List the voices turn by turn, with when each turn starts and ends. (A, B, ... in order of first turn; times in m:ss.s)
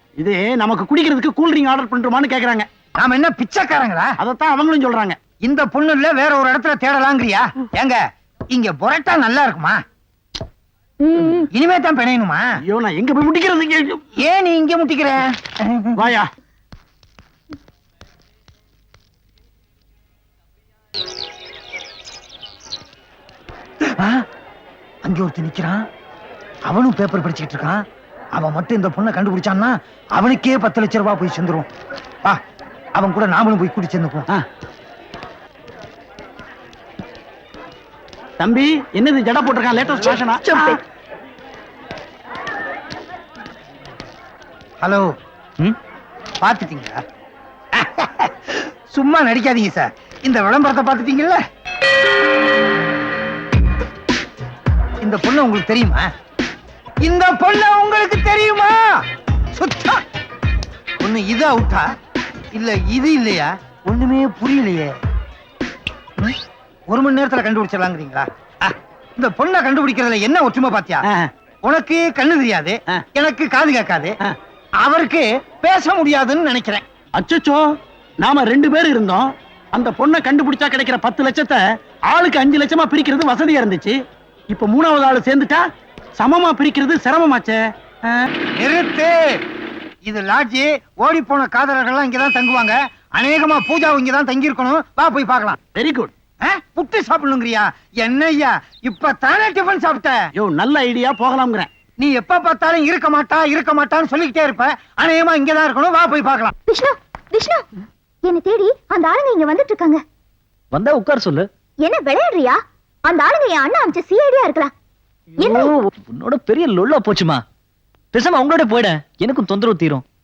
0:00.2-0:02.7 A
0:03.0-0:04.1 B
0:04.2-0:05.2 A
0:05.4-0:08.0 B
0:08.5-0:09.8 B
0:11.0-0:11.5 C
0:11.5-0:12.4 B
0:12.6-0:14.0 A
0:14.2-0:16.0 B
0:16.0-0:16.3 A
0:24.0-0:24.2 B
0:25.0-0:25.8 B
0:26.7-0:27.8 B
0:28.3-0:31.7 B
0:33.0-0:34.3 B
0:38.4-0:40.8 A
0:44.8-0:45.1 B
0:46.4-0:47.0 B
0:47.7-0:51.4 B
0:55.0-0:56.1 B
0:57.0-0:59.0 B
0:59.6-1:00.0 B
1:01.0-1:01.8 B
1:02.5-1:04.9 B
1:06.9-1:11.0 B
1:11.6-1:14.2 B
1:14.8-1:16.8 B
1:17.2-1:17.6 A
1:18.2-1:23.9 A
1:24.5-1:25.6 A
1:26.2-1:28.3 A
1:28.6-1:29.3 B
1:30.0-1:35.6 B
1:35.7-1:36.1 A
1:36.4-1:40.2 B
1:40.4-1:41.7 A
1:42.0-1:46.5 B
1:46.7-1:47.6 C
1:48.2-1:50.0 C
1:50.7-1:51.5 D
1:51.8-1:54.7 C
1:55.4-1:55.7 C
1:55.4-1:57.4 D
1:58.1-2:00.0 D